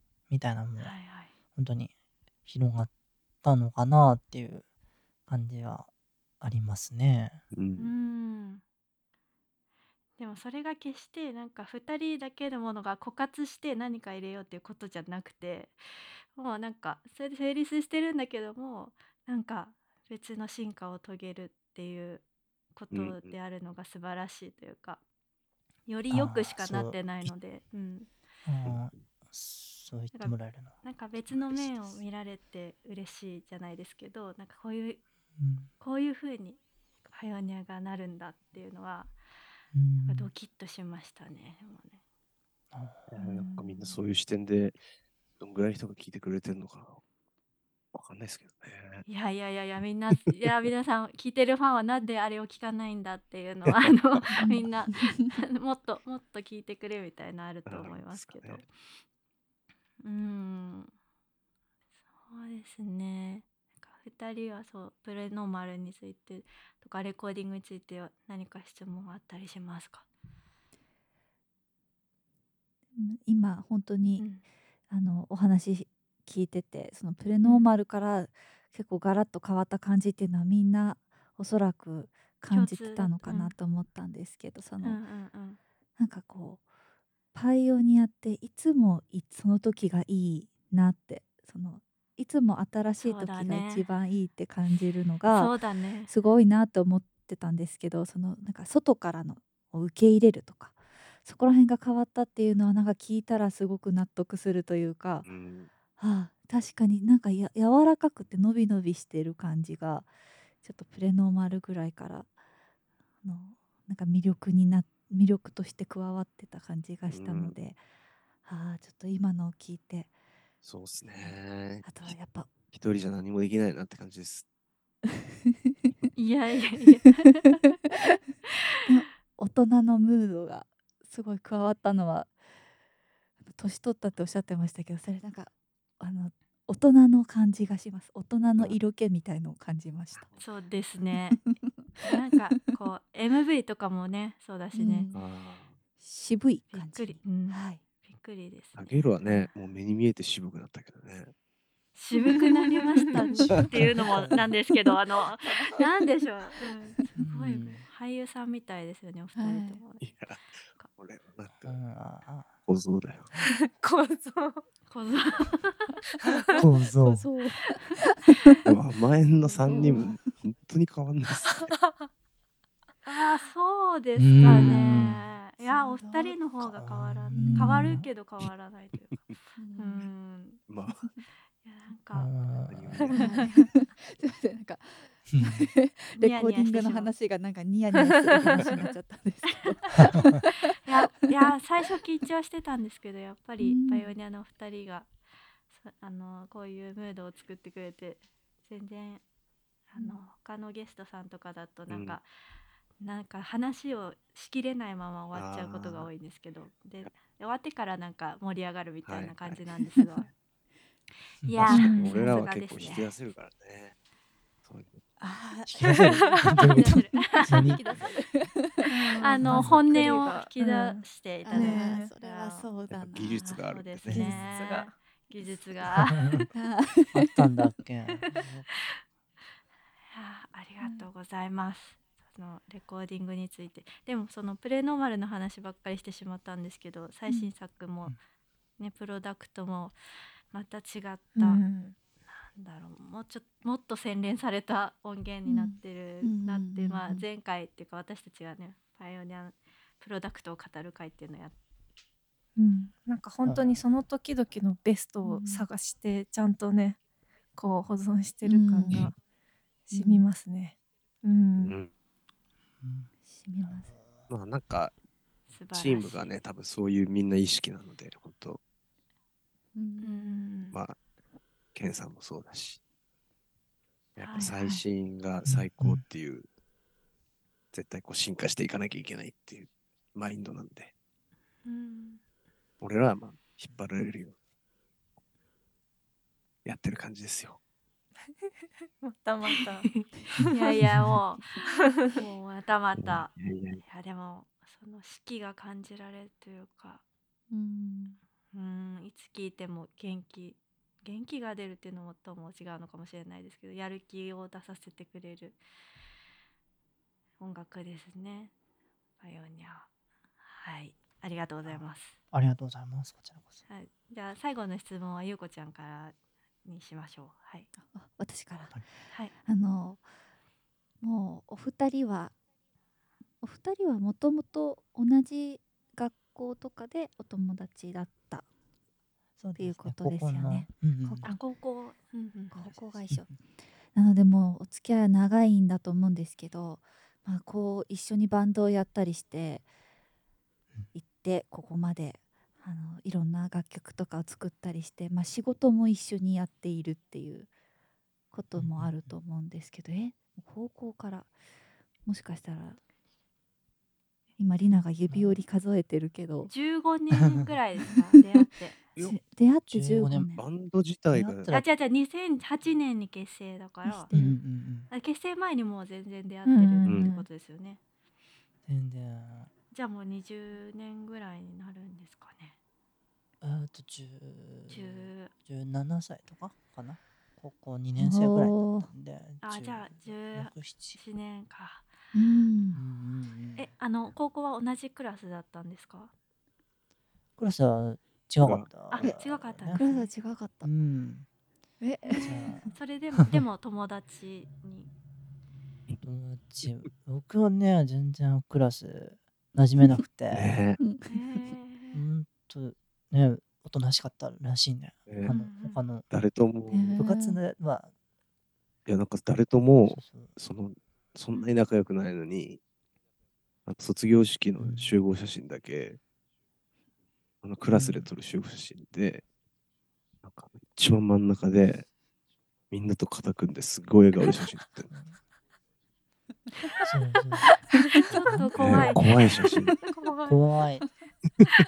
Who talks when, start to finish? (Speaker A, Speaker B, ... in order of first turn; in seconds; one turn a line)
Speaker A: 0.3-0.9
Speaker B: 0.8-1.3
Speaker A: 1.6-1.9
Speaker A: 2.5-2.9
Speaker A: 3.4-4.6
Speaker A: 5.3-5.9
Speaker A: 6.4-7.4
Speaker C: 7.5-7.9
Speaker B: 7.8-8.6
Speaker B: 10.2-15.8
Speaker B: 16.3-22.2
Speaker B: 22.8-25.0
Speaker C: 22.9-23.4
Speaker B: 25.9-28.1
Speaker A: 26.1-27.3
Speaker A: 28.4-32.0
Speaker C: 28.6-28.9
Speaker B: 30.1-35.0
Speaker A: 35.4-35.7
Speaker B: 35.8-39.1
Speaker A: 39.7-40.3
Speaker B: 40.0-42.0
Speaker A: 42.7-43.1
Speaker C: 43.1-44.8
Speaker B: 43.2-44.0
Speaker C: 45.4-47.0
Speaker C: 47.9-49.1
Speaker B: 49.1-58.7
Speaker D: 54.4-55.1
Speaker C: 57.7-58.6
Speaker B: 60.0-60.9
Speaker B: 62.3-70.0
Speaker D: 73.0-74.3
Speaker B: 74.2-74.4
Speaker D: 74.9-85.0
Speaker B: 77.4-77.7
Speaker B: 82.5-83.5
Speaker B: 84.8-85.6
Speaker D: 86.0-86.7
Speaker D: 87.3-95.5
Speaker B: 93.0-93.9
Speaker B: 95.3-96.1
Speaker D: 96.1-105.3
Speaker C: 105.2-105.7
Speaker D: 106.0-110.1
Speaker D: 110.6-112.3
Speaker D: 113.2-117.8
Speaker C: 117.1-117.6
Speaker D: 118.4-120.1
Speaker C: 120.6-122.2
Speaker D: 121.8-122.5
Speaker C: 122.7-124.5
Speaker B: 126.2-127.7
Speaker D: 128.9-132.3
Speaker D: 133.5-140.3
Speaker C: 140.2-140.4
Speaker B: 140.4-141.4
Speaker D: 141.3-142.0
Speaker B: 142.0-145.1
Speaker D: 144.7-145.2
Speaker C: 145.1-145.8
Speaker D: 146.0-147.8
Speaker B: 146.7-149.5
Speaker C: 148.8-151.3
Speaker B: 151.9-160.0
Speaker D: 153.3-153.7
Speaker C: 153.5-154.1
Speaker A: 157.2-157.8
Speaker D: 159.4-159.8
Speaker C: 160.0-161.8
Speaker A: 161.6-162.6
Speaker C: 162.7-163.3
Speaker E: 163.4-164.6
Speaker B: 164.9-165.9
Speaker E: 166.2-166.6
Speaker A: 166.4-167.3
Speaker D: 167.0-168.6
Speaker C: 168.7-171.7
Speaker D: 169.5-170.3
Speaker E: 171.5-171.9
Speaker B: 173.1-180.6
Speaker A: 174.2-175.2
Speaker D: 174.5-176.4
Speaker A: 176.6-178.1
Speaker D: 177.4-178.0
Speaker D: 179.6-180.1
Speaker C: 180.7-181.1
Speaker B: 181.6-182.3
Speaker A: 182.1-183.1
Speaker C: 182.7-183.2
Speaker B: 183.2-183.6
Speaker D: 183.2-191.1
Speaker A: 185.3-185.7
Speaker B: 186.2-187.1
Speaker E: 187.9-188.7
Speaker A: 190.0-190.4
Speaker B: 190.7-195.1
Speaker D: 193.6-194.1
Speaker B: 195.7-199.2
Speaker B: 199.9-202.2
Speaker C: 201.9-202.2
Speaker B: 203.0-210.3
Speaker C: 205.3-206.1
Speaker C: 209.1-209.6
Speaker A: 211.4-211.9
Speaker B: 211.4-213.1
Speaker C: 211.6-213.9
Speaker E: 211.7-212.2
Speaker C: 214.7-215.0
Speaker D: 215.3-215.8
Speaker A: 215.7-217.8
Speaker B: 216.2-217.8
Speaker D: 216.4-219.4
Speaker B: 218.9-222.7
Speaker E: 218.9-222.1
Speaker A: 219.4-219.8
Speaker D: 219.9-220.2
Speaker D: 221.4-223.6
Speaker C: 222.9-224.4
Speaker B: 223.4-226.4
Speaker D: 224.1-224.5
Speaker E: 224.3-224.9
Speaker A: 226.1-226.5
Speaker D: 226.5-227.5
Speaker A: 227.1-228.7
Speaker B: 230.1-238.2
Speaker B: 238.8-239.9
Speaker B: 240.5-241.6
Speaker E: 241.4-242.0
Speaker B: 242.3-251.6
Speaker D: 245.5-247.3
Speaker E: 252.6-257.0
Speaker A: 253.4-253.8
Speaker D: 255.2-255.7
Speaker E: 257.6-259.2
Speaker D: 258.4-259.1
Speaker E: 259.9-261.8
Speaker D: 259.9-260.3
Speaker C: 261.6-261.9
Speaker A: 262.8-263.1
Speaker D: 263.2-263.9
Speaker A: 263.6-264.3
Speaker C: 264.3-264.9
Speaker B: 265.5-266.2
Speaker C: 265.7-268.6
Speaker D: 269.8-270.4
Speaker B: 270.0-270.8
Speaker C: 270.7-271.0
Speaker C: 271.8-272.8
Speaker C: 274.2-276.5
Speaker B: 274.2-274.6
Speaker A: 275.5-276.0
Speaker C: 277.7-280.9
Speaker B: 281.6-282.2
Speaker C: 282.8-284.4
Speaker C: 286.6-287.6
Speaker E: 289.0-290.0
Speaker B: 289.4-297.0
Speaker A: 290.9-291.2
Speaker E: 291.7-292.2
Speaker C: 293.0-293.8
Speaker D: 297.5-298.2
Speaker B: 298.5-305.6
Speaker B: 307.4-308.5
Speaker B: 309.2-309.9
Speaker B: 310.4-312.2
Speaker A: 311.6-313.6
Speaker B: 313.7-317.7
Speaker D: 317.8-320.1
Speaker D: 321.0-322.3
Speaker D: 323.4-328.4
Speaker A: 329.4-331.3
Speaker D: 329.6-331.3
Speaker B: 331.2-332.6
Speaker D: 332.5-333.4
Speaker D: 333.9-339.7
Speaker D: 340.9-347.5
Speaker D: 348.3-351.3
Speaker A: 348.6-349.1
Speaker D: 352.1-352.8
Speaker D: 354.4-356.5
Speaker A: 355.1-355.4
Speaker B: 356.5-358.8
Speaker D: 359.0-360.4
Speaker A: 359.7-360.3
Speaker C: 360.4-361.5
Speaker A: 361.1-361.7
Speaker B: 361.5-364.1
Speaker D: 363.9-364.4
Speaker A: 364.1-364.9
Speaker B: 364.9-367.8
Speaker E: 366.4-367.1
Speaker A: 368.7-369.5
Speaker B: 369.7-372.6
Speaker A: 373.4-381.0
Speaker B: 374.7-375.3
Speaker D: 378.0-378.9
Speaker B: 379.4-381.9
Speaker D: 382.1-382.8
Speaker A: 382.7-383.7
Speaker B: 383.6-386.1
Speaker A: 387.4-389.8
Speaker C: 388.4-388.7
Speaker B: 388.9-390.1
Speaker D: 389.7-390.7
Speaker A: 390.6-391.3
Speaker D: 391.8-392.7
Speaker B: 392.1-394.9
Speaker A: 392.2-393.4
Speaker A: 396.0-400.6
Speaker C: 400.3-400.8
Speaker D: 400.8-401.2
Speaker B: 401.1-402.0
Speaker A: 401.9-406.1
Speaker C: 405.1-405.3
Speaker B: 405.2-405.8
Speaker C: 406.1-407.0
Speaker D: 406.7-407.4
Speaker A: 407.0-407.9
Speaker C: 408.9-412.6
Speaker A: 409.9-410.3
Speaker C: 413.7-416.0
Speaker A: 414.6-414.9
Speaker C: 417.4-419.2
Speaker A: 417.7-418.1
Speaker C: 420.2-421.9
Speaker C: 422.7-424.9
Speaker A: 424.9-425.2
Speaker A: 426.8-429.3
Speaker B: 427.8-430.4
Speaker C: 428.6-429.8
Speaker A: 430.3-430.9